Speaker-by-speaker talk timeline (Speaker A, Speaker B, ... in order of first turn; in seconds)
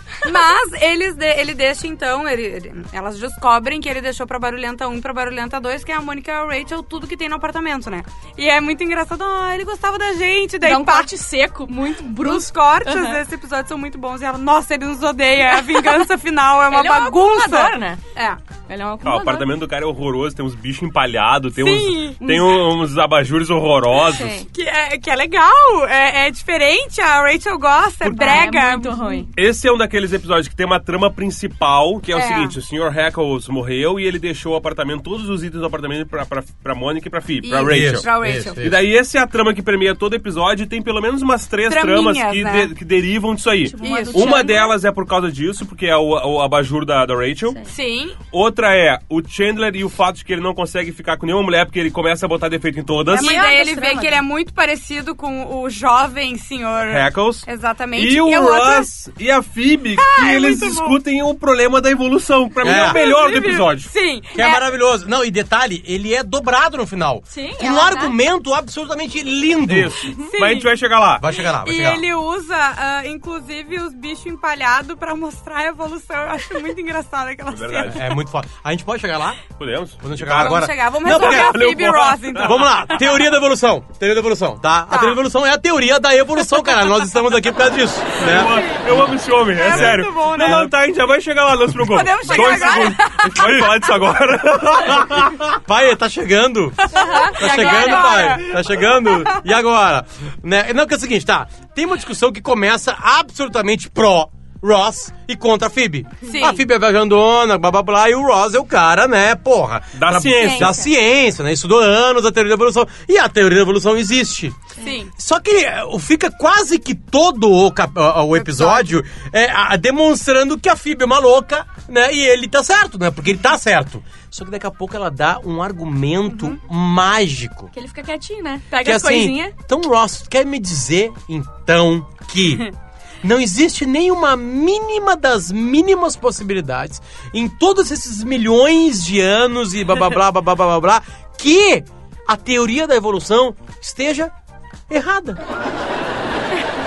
Speaker A: 0.2-11.1, 12.1-18.4, 21.6-22.3, 24.5-29.3, 32.1-32.5, 37.4-38.6, 41.7-42.7, 43.8-44.7, 47.7-48.2, 53.1-58.9, 60.0-61.0, 62.7-64.6, 70.3-70.7, 71.6-78.0, 80.3-83.0, 84.9-85.2, 88.2-88.8, 89.5-90.7, 91.8-93.6, 96.9-99.4, 106.2-106.6, 114.8-115.1, 118.3-118.9, 126.3-126.6
Speaker B: 10.6-13.2, 15.4-16.1, 16.7-18.0, 18.7-19.5, 22.2-22.6, 23.9-24.5, 28.0-29.3, 43.7-44.7, 53.1-54.2, 67.3-68.2, 92.3-92.9, 97.0-98.4, 110.4-110.9, 127.7-129.5
Speaker C: 19.0-24.4, 29.3-47.6, 48.3-53.4, 56.9-63.9, 69.7-71.3, 77.5-78.0, 79.6-82.9, 88.2-95.5, 110.0-110.8
Speaker D: 37.7-38.9, 62.6-63.0, 64.3-70.0, 71.2-72.0, 77.9-79.4, 80.0-81.7, 82.4-88.6, 89.7-90.7, 93.3-93.7, 95.4-114.6, 115.2-127.7, 128.8-132.7, 133.2-144.3, 144.9-145.4